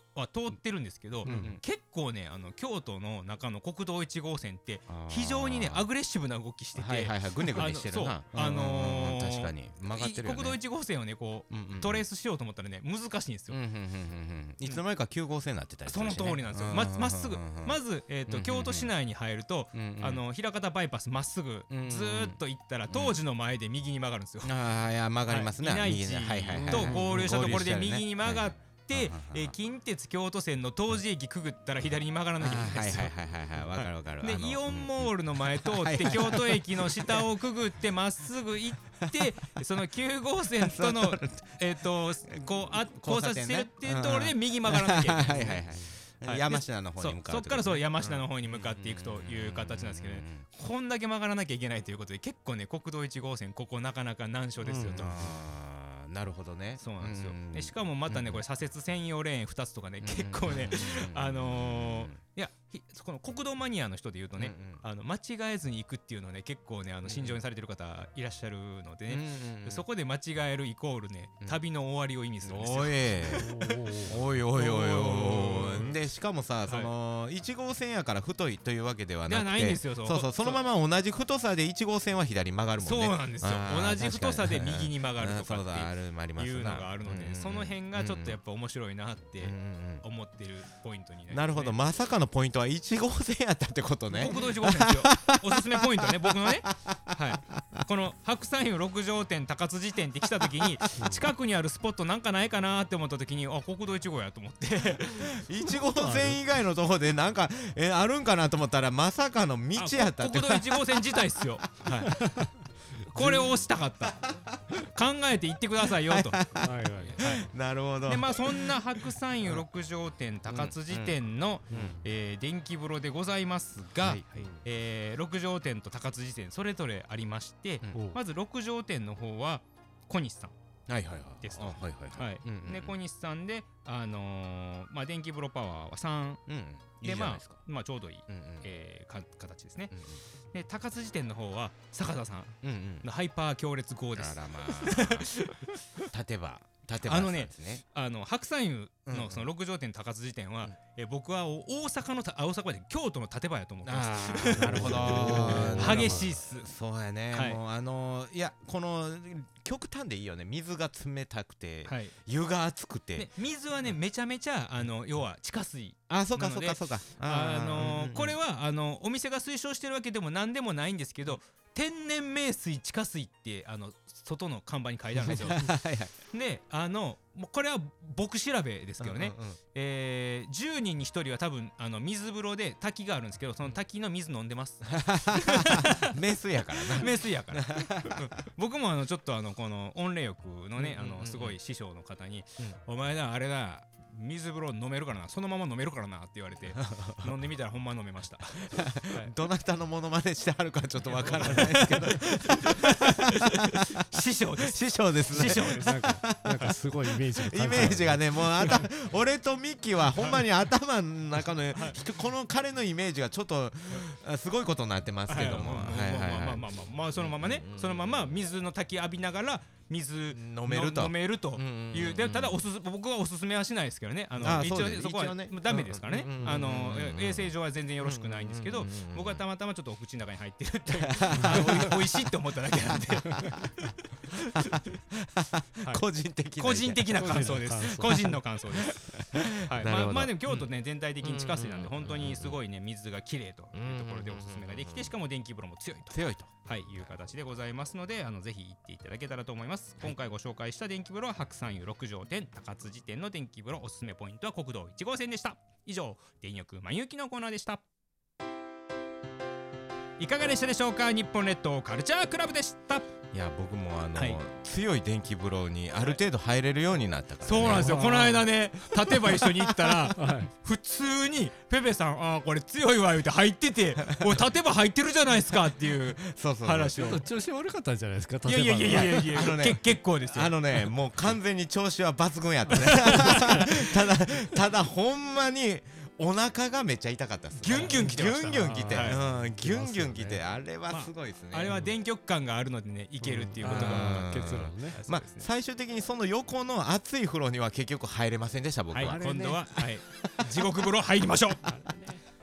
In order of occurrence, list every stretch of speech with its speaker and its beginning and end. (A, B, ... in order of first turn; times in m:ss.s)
0:00.1-0:13.6 A
0:01.2-0:01.6 B
0:01.2-0:01.6 C
0:04.9-0:05.9 C
0:06.7-0:10.6 C
0:11.5-0:12.0 C
0:13.5-0:18.9 C
0:15.9-0:24.5 A
0:19.7-0:20.2 C
0:21.7-0:22.4 C
0:22.9-0:23.2 C
0:24.4-0:29.5 C
0:25.2-0:45.6 A
0:26.6-0:27.3 B
0:32.4-0:37.3 C
0:39.0-0:39.3 C
0:40.6-0:41.6 C
0:42.2-0:50.4 C
0:46.2-0:55.4 A
0:54.8-0:58.4 C
0:56.8-1:16.0 A
1:00.0-1:02.2 C
1:04.4-1:04.8 C
1:07.0-1:07.4 C
1:09.1-1:09.8 C
1:12.4-1:28.4 C
1:13.3-1:14.2 B
1:16.6-1:16.9 A
1:19.3-1:20.6 A
1:22.8-1:31.8 A
1:29.4-1:30.0 C
1:31.3-1:37.8 C
1:34.1-1:45.3 A
1:41.0-1:41.2 B
1:45.0-1:52.1 C
1:45.6-1:46.4 B
1:49.7-1:52.1 A
1:52.1-1:52.5 B
1:53.1-1:56.5 A
1:53.1-1:53.6 B
1:55.8-1:59.6 C
1:56.5-1:57.2 B
1:57.2-1:57.5 A
1:58.0-2:10.5 A
2:00.5-2:02.0 C
2:01.7-2:02.0 B
2:04.0-2:04.5 C
2:04.3-2:04.6 B
2:07.9-2:08.2 B
2:10.9-2:13.0 C
2:11.4-2:16.4 A
2:16.5-2:17.6 C
2:17.0-2:19.9 A
2:18.3-2:18.7 C
2:19.9-2:20.2 C
2:20.5-2:26.0 A
2:22.6-2:23.1 C
2:24.1-2:25.4 C
2:26.1-2:27.8 C
2:27.0-2:36.7 A
2:29.1-2:29.5 C
2:33.8-2:43.3 C
2:34.5-2:36.3 B
2:37.3-2:37.6 A
2:41.8-2:42.1 A
2:43.1-2:55.7 A
2:46.1-2:48.4 C
2:55.2-2:56.1 C
2:56.3-3:06.1 A
2:59.0-2:59.6 C
3:04.9-3:08.3 C
3:06.9-3:19.3 A
3:10.8-3:11.6 C
3:16.8-3:17.3 C
3:18.7-3:38.4 C
3:21.1-3:25.9 A
3:21.5-3:22.2 B
3:25.3-3:28.8 B
3:30.1-3:30.4 A
3:31.7-3:32.0 A
3:35.2-3:53.6 A
3:40.3-3:42.6 C
3:44.4-3:49.4 C
3:50.9-3:53.9 C
3:54.3-3:54.8 A
3:54.5-4:00.7 C
3:56.6-3:58.9 A
3:57.1-3:58.4 B
3:59.6-4:17.8 A
4:01.2-4:02.6 C
4:03.7-4:05.1 C
4:06.1-4:07.1 C
4:20.2-4:23.1 A
4:23.3-4:28.1 C
4:27.4-4:37.2 A
4:27.6-4:29.3 B
4:30.1-4:30.5 B
4:34.1-4:34.4 C
4:35.7-4:37.2 C
4:36.9-4:39.4 B
4:38.4-4:40.8 A
4:38.8-4:51.9 C
4:42.6-4:43.6 B
4:42.8-4:43.9 A
4:47.6-4:49.2 A
4:47.6-4:50.4 B
4:50.9-4:55.5 A
4:53.2-4:55.0 B
4:53.6-4:59.2 C
4:58.9-5:01.7 A
4:59.0-4:59.7 B
5:00.1-5:00.7 C
5:01.6-5:02.2 B